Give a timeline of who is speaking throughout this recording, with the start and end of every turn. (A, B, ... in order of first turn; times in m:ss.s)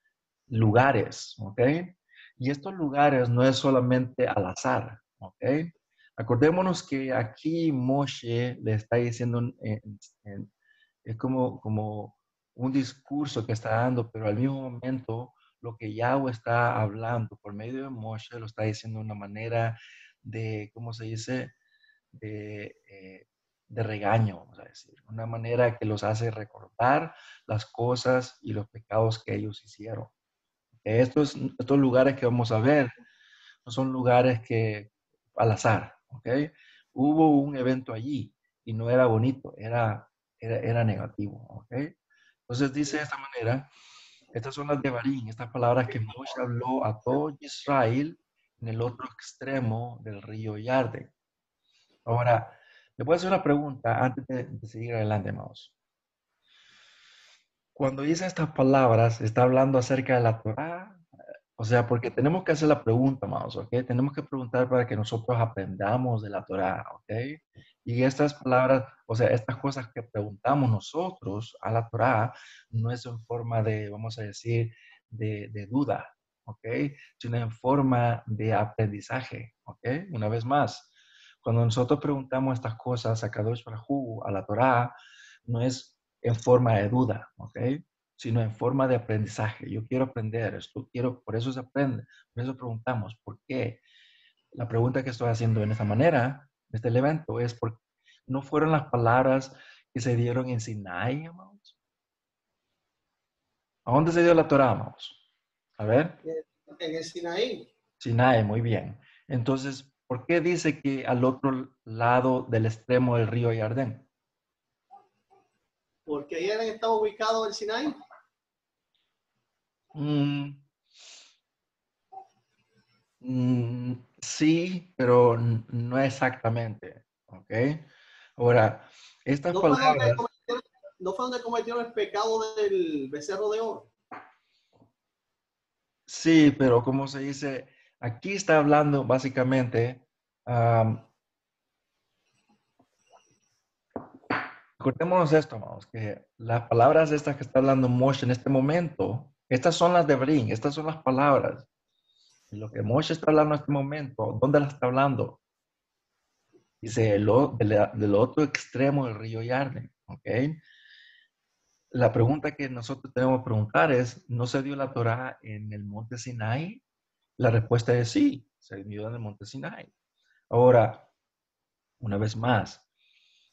0:00.5-0:10.5 A
0:11.0-0:21.5 A
0:22.1-0:30.1 A
0:30.8-0:32.9 A
0:33.6-0:41.9 A
0:42.5-0:43.7 A
0:44.3-0:51.1 A
0:52.0-0:55.7 A
0:57.8-1:01.0 A
1:01.6-1:20.9 A
1:21.4-1:25.0 A
1:25.5-1:33.8 A
1:34.5-1:41.8 A
1:43.8-1:45.2 A
1:45.8-1:46.2 A
1:46.2-1:47.7 B
1:48.0-1:54.1 A
1:56.0-1:58.0 B
1:59.9-2:00.6 A
2:03.2-2:07.8 A
2:08.4-2:10.2 A
2:09.5-2:13.9 B
2:16.1-2:21.1 A
2:24.8-2:31.7 A
2:32.5-2:35.4 A
2:36.8-2:40.6 A
2:41.9-2:46.8 A
2:47.4-2:49.9 A
2:50.5-2:51.1 A
2:52.0-2:52.8 A